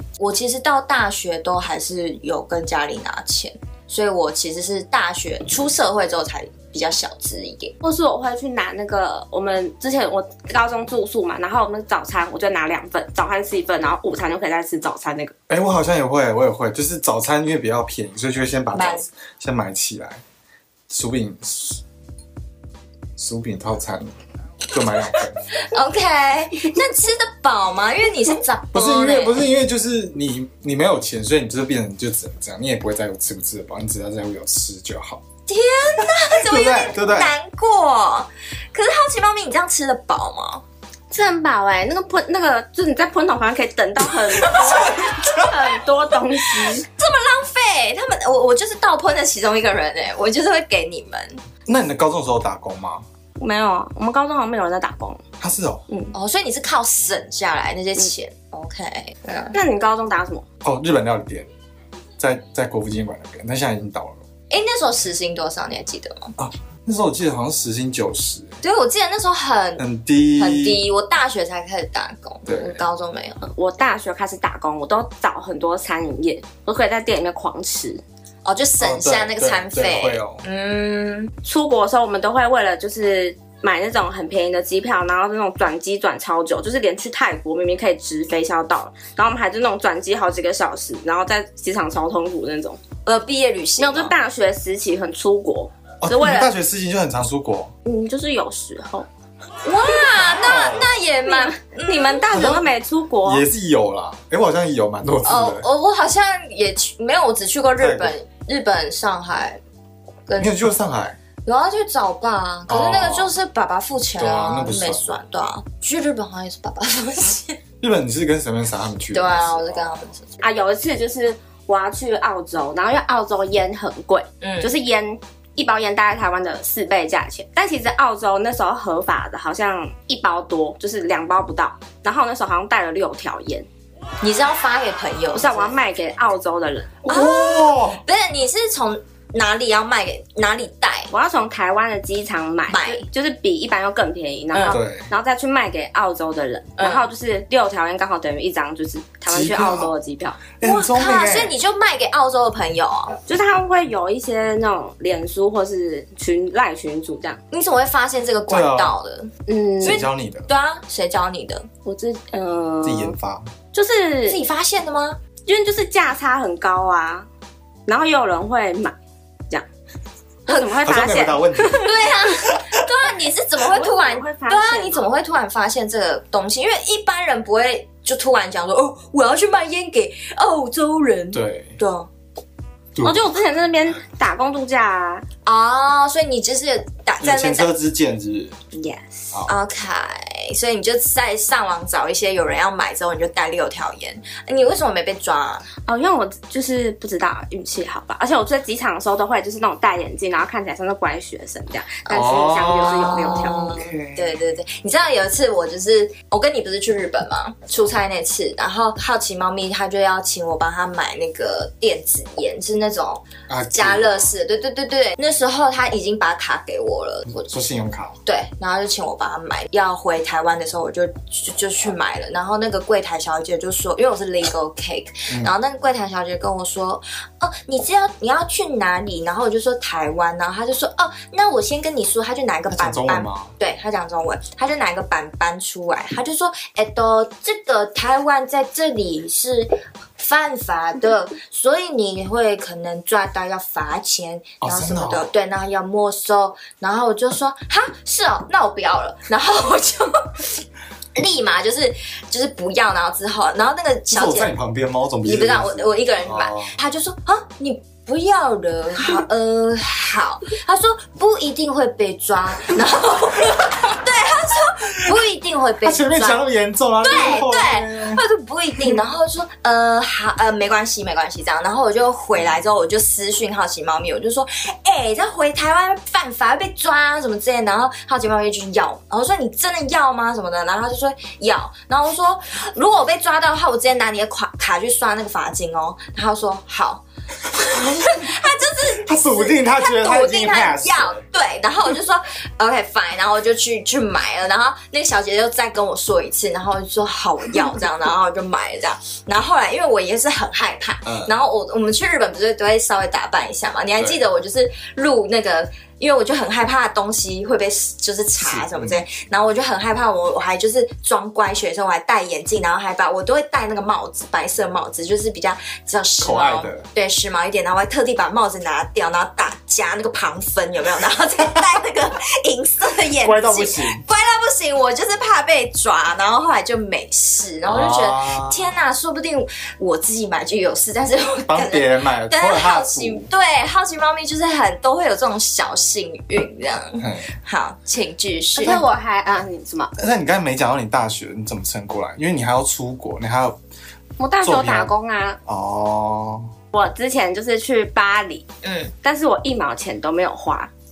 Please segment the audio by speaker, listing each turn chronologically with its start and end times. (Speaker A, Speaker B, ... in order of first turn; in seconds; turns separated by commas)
Speaker A: 0.2-7.7, Speaker B: 7.8-15.3, Speaker C: 15.5-20.2, Speaker A: 18.7-19.1, Speaker C: 20.9-21.8, Speaker C: 23.2-24.1, Speaker C: 24.7-25.4, Speaker A: 25.5-29.5, Speaker C: 28.7-35.2, Speaker A: 35.5-40.6, Speaker C: 36.4-37.4, Speaker B: 41.1-46.9, Speaker A: 44.5-45.4, Speaker A: 46.6-51.4, Speaker C: 51.7-53.0, Speaker B: 53.4-55.2, Speaker C: 55.4-55.8, Speaker B: 55.9-56.1, Speaker A: 56.1-59.6, Speaker B: 59.5-60.5, Speaker C: 60.6-61.5, Speaker C: 62.2-64.2, Speaker A: 64.5-66.3, Speaker C: 66.4-68.6, Speaker A: 68.6-69.8, Speaker C: 69.8-70.8, Speaker A: 70.4-73.4, Speaker C: 72.5-72.8, Speaker B: 73.4-78.0, Speaker A: 78.5-81.3, Speaker C: 78.8-80.4, Speaker B: 81.4-92.8, Speaker A: 93.0-94.1, Speaker B: 93.8-96.5, Speaker C: 96.0-97.7, Speaker B: 97.8-99.1, Speaker A: 99.6-102.6, Speaker C: 100.1-101.0, Speaker B: 101.2-103.5, Speaker C: 102.3-102.6, Speaker C: 103.2-105.7, Speaker A: 105.2-109.6, Speaker C: 107.8-108.1, Speaker A: 110.3-110.5, Speaker C: 110.4-111.2, Speaker A: 111.5-117.6, Speaker C: 112.7-113.3, Speaker C: 114.2-115.1, Speaker C: 117.8-120.0, Speaker A: 119.1-120.3, Speaker B: 120.4-133.7, Speaker A: 124.4-124.7, Speaker A: 134.2-135.8, Speaker B: 135.3-137.1, Speaker C: 137.1-138.0, Speaker A: 137.1-141.1, Speaker B: 141.1-150.4, Speaker A: 142.7-143.1, Speaker A: 144.5-144.8, Speaker C: 144.7-145.1, Speaker A: 146.8-147.1, Speaker C: 149.3-149.9, Speaker C: 150.6-151.5, Speaker A: 150.6-153.2, Speaker B: 153.3-157.4, Speaker A: 157.5-159.3, Speaker C: 158.5-159.0, Speaker B: 159.5-160.0, Speaker C: 159.8-160.5, Speaker A: 159.8-161.7, Speaker B: 161.8-163.1, Speaker C: 162.8-163.5, Speaker B: 163.7-164.4, Speaker A: 164.3-165.2, Speaker B: 165.5-167.3, Speaker B: 167.9-168.9, Speaker B: 170.5-172.2, Speaker A: 170.5-170.8, Speaker C: 170.8-171.9, Speaker A: 171.8-182.1, Speaker C: 172.5-172.8, Speaker B: 173.6-175.1, Speaker C: 181.3-181.8, Speaker B: 183.0-185.2, Speaker A: 185.4-187.7, Speaker C: 187.2-188.6, Speaker B: 188.7-189.3, Speaker A: 189.5-195.7, Speaker B: 195.8-203.8, Speaker A: 202.1-217.4, Speaker C: 202.1-204.4, Speaker C: 213.5-214.3, Speaker C: 217.3-218.2, Speaker A: 218.2-250.6, Speaker C: 232.7-233.5, Speaker C: 244.6-245.3, Speaker A: 251.2-254.6, Speaker C: 254.1-256.8, Speaker A: 255.2-266.5, Speaker C: 265.8-268.2, Speaker A: 267.0-338.8, Speaker C: 287.8-288.2, Speaker C: 289.0-291.3, Speaker C: 301.1-301.4, Speaker C: 308.4-309.1, Speaker C: 316.2-316.9, Speaker C: 323.2-324.0, Speaker C: 327.7-328.7, Speaker C: 331.5-333.3, Speaker C: 337.0-337.3, Speaker B: 338.6-339.9, Speaker C: 340.0-343.6, Speaker B: 344.2-345.4, Speaker C: 344.4-344.9, Speaker C: 345.4-346.5, Speaker B: 346.7-348.4, Speaker A: 348.6-348.9, Speaker B: 349.0-350.7